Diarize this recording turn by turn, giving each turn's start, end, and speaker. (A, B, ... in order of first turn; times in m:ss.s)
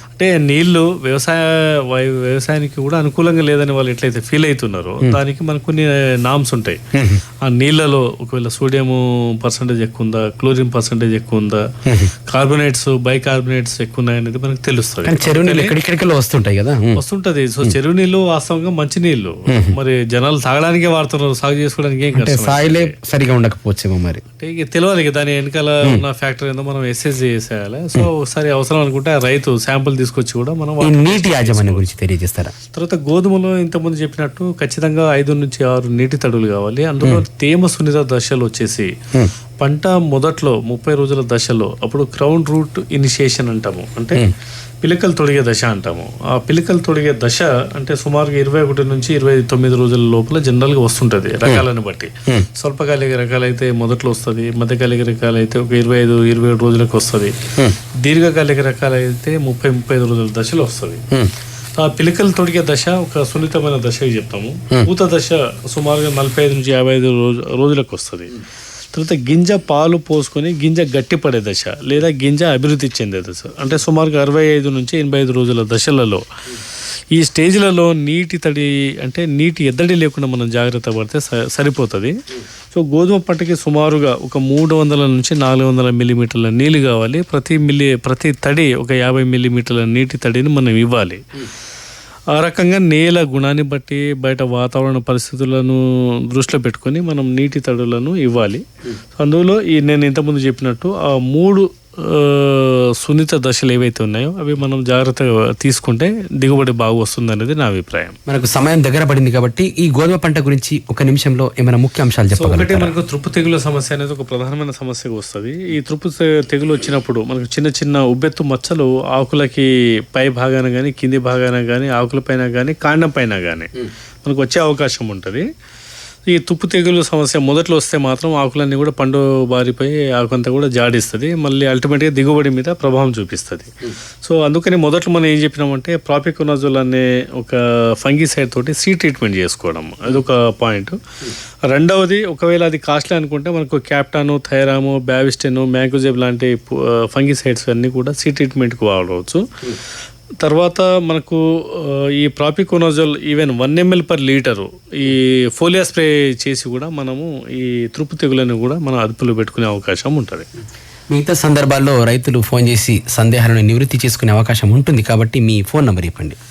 0:00.2-0:06.8 A
0:06.9-0:07.2 B
0:07.4-0:11.7 A
0:11.9-0:12.1 B
0:12.2-0:15.8 A
0:15.1-0:17.0 B
0:17.0-0:23.0 A
0:19.5-0:19.8 B
0:22.2-0:24.2 B
0:24.4-0:31.9 A
0:30.8-0:32.6 B
0:32.7-0:39.0 A
0:39.6-0:44.3 A
0:44.8-0:57.4 A
0:57.9-1:01.0 A
1:01.8-1:08.4 A
1:08.9-1:16.6 A
1:17.1-1:22.2 A
1:22.7-1:31.2 A
1:32.3-1:38.6 A
1:39.2-1:48.2 A
1:48.3-1:53.0 B
1:52.4-2:05.5 A
2:06.3-2:29.8 A
2:30.4-2:40.5 A
2:41.1-2:46.4 B